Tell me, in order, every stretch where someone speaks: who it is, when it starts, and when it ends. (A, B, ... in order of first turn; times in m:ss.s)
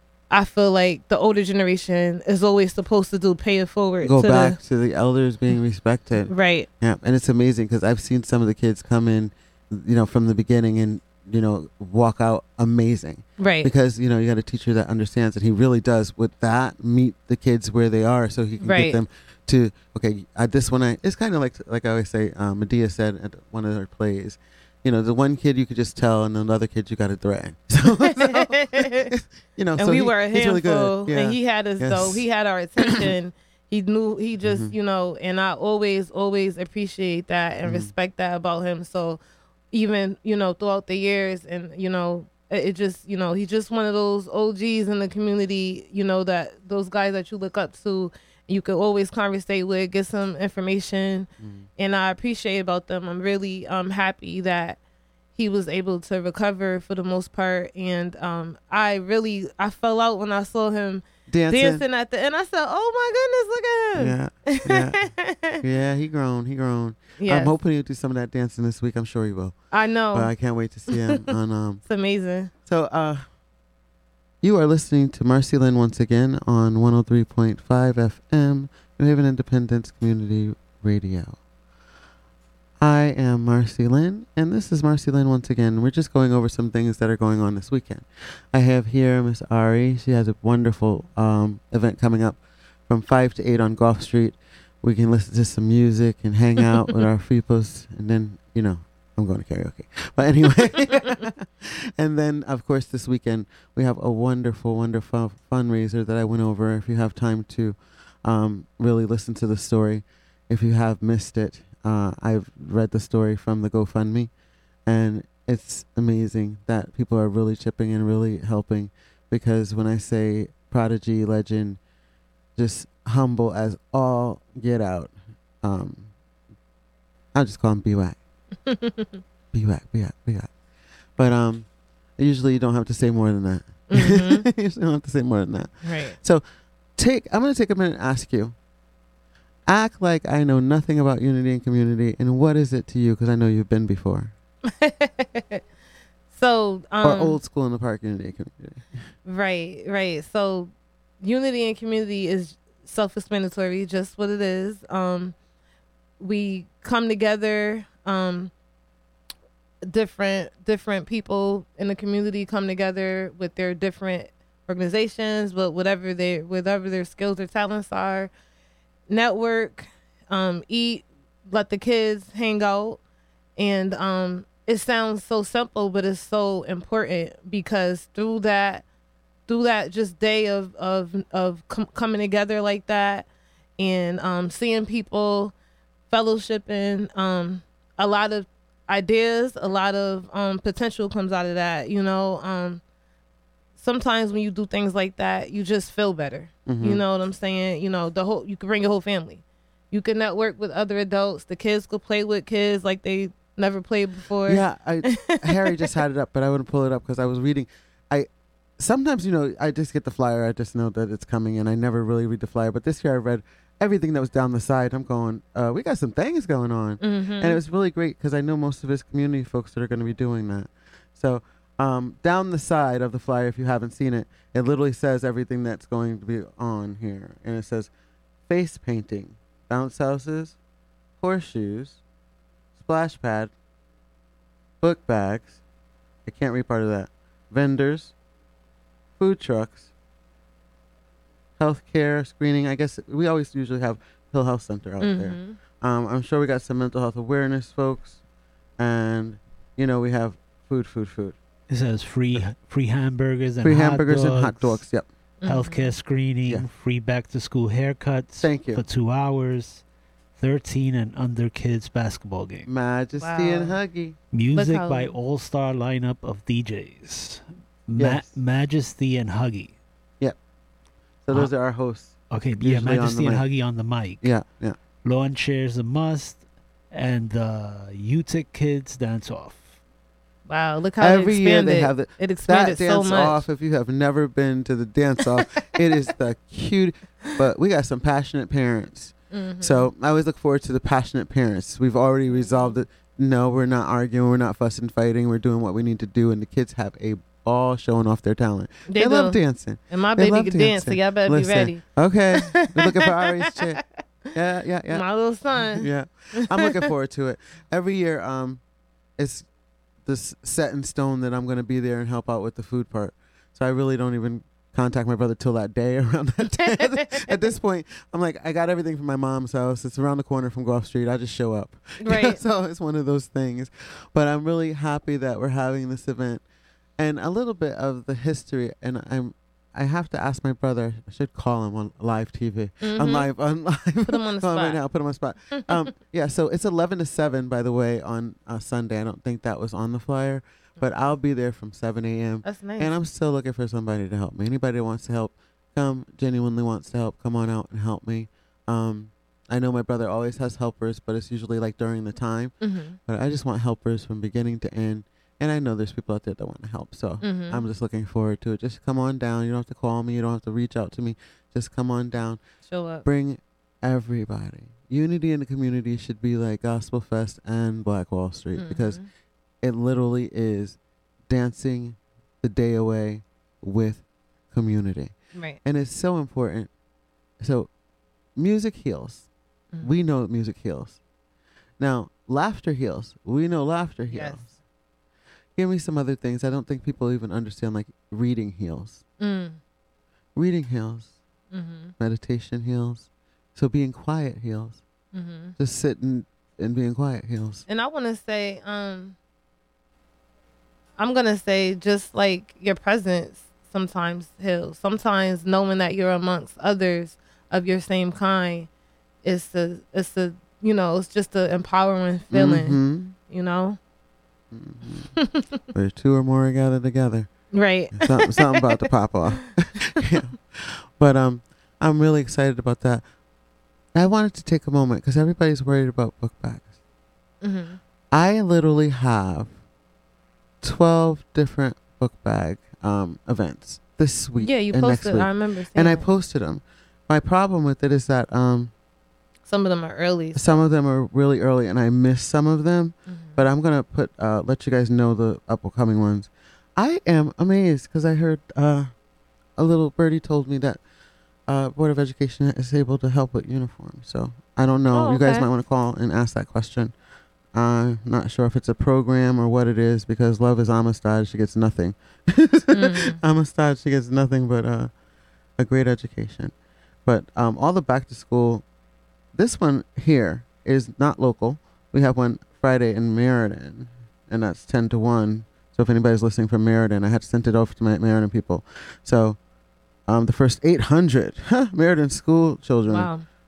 0:00.3-0:04.6 A
0:04.0-0:32.2 B
0:06.3-0:06.7 A
0:13.4-0:13.7 A
0:18.6-0:19.0 A
0:28.0-0:29.1 A
0:29.8-0:39.2 A
0:32.8-0:33.1 B
0:34.4-0:34.7 B
0:37.6-0:37.9 B
0:39.7-0:54.8 A
0:51.4-0:51.6 B
0:55.4-1:05.6 A
1:01.3-1:01.8 B
1:04.0-1:09.6 B
1:07.2-1:07.5 A
1:09.7-1:10.3 A
1:10.1-1:11.8 B
1:10.9-1:11.3 A
1:11.9-1:12.5 A
1:12.6-1:13.2 B
1:14.4-1:21.4 B
1:22.8-1:54.3 B
1:54.9-2:01.8 B
2:02.6-2:06.1 B
2:07.3-2:08.2 B
2:08.6-2:09.2 A
2:09.5-2:10.5 B
2:11.2-2:11.7 B
2:12.2-2:16.4 B
2:13.9-2:14.5 A
2:15.8-2:16.2 A
2:17.0-2:18.5 B
2:19.7-2:24.3 B
2:24.7-2:25.6 A
2:26.3-2:27.4 A
2:27.0-2:29.1 B
2:29.2-2:35.4 A
2:36.2-2:38.5 A
2:39.8-2:48.3 A
2:49.1-2:53.0 A
2:53.6-2:58.8 A
2:59.5-3:03.3 A
3:03.8-3:05.5 A
3:06.1-3:12.8 A
3:13.8-3:25.9 A
3:16.6-3:17.0 B
3:24.4-3:47.9 B
3:37.0-3:37.6 A
3:48.5-3:50.6 B
3:51.2-3:52.0 B
3:52.8-3:53.5 B
3:54.8-3:55.6 B
3:56.2-3:58.1 B
3:59.2-3:59.9 B
4:01.6-4:08.2 B
4:05.0-4:05.6 A
4:08.8-4:11.4 B
4:11.7-4:14.8 C
4:13.6-4:15.1 B
4:15.4-4:15.9 A
4:15.4-4:19.8 C
4:18.4-4:18.8 B
4:20.4-4:22.7 C
4:22.6-4:24.2 B
4:23.2-4:23.8 A
4:24.3-4:29.8 C
4:24.5-4:25.1 A
4:28.0-4:28.3 B
4:31.2-4:33.5 B
4:32.3-4:34.3 C
4:34.2-4:34.8 B
4:35.0-4:39.8 C
4:40.5-4:43.4 A
4:41.0-5:08.6 B
4:49.3-4:49.9 A
4:58.9-4:59.4 A
4:59.9-5:01.8 A
5:02.3-5:03.6 A
5:04.9-5:06.7 A
5:09.2-5:09.5 B
5:10.0-5:26.4 B
5:16.6-5:17.2 A
5:22.0-5:22.4 A
5:27.0-6:02.4 B
5:32.8-5:33.3 A
5:34.1-5:34.8 A
5:42.4-5:42.9 A
5:52.6-5:53.0 A
5:57.2-5:57.6 A
6:02.7-6:03.0 A
6:03.0-6:09.0 B
6:08.5-6:09.1 A
6:09.6-6:16.7 B
6:15.3-6:15.6 A
6:17.4-6:17.7 B
6:18.4-6:19.3 B
6:19.8-6:21.0 B
6:21.8-6:24.5 B
6:24.1-6:24.5 A
6:25.6-6:29.0 B
6:29.2-6:29.6 A
6:30.4-6:31.1 B
6:31.5-6:31.9 A
6:32.0-6:34.8 B
6:35.1-6:35.6 A
6:35.6-6:37.6 B
6:37.7-6:39.2 A
6:41.0-6:48.7 A
6:49.2-6:53.8 A
6:52.3-6:53.2 B
6:54.5-6:55.1 B
6:55.2-6:55.5 A
6:55.7-6:57.3 B
6:57.5-6:58.8 A
6:57.9-7:03.0 B
7:03.9-7:06.7 B
7:07.4-7:07.8 A
7:08.1-7:09.5 B
7:10.6-7:18.7 B
7:14.4-7:16.0 A
7:19.5-7:20.4 A
7:20.4-7:28.9 B
7:23.1-7:23.4 A
7:29.6-7:30.8 B
7:31.5-7:36.9 B
7:34.9-7:35.5 A
7:37.5-7:44.9 B
7:42.7-7:43.2 A
7:45.6-7:46.5 B
7:47.0-7:48.6 B
7:49.3-7:59.4 B
8:00.1-8:03.1 B
8:02.9-8:03.2 A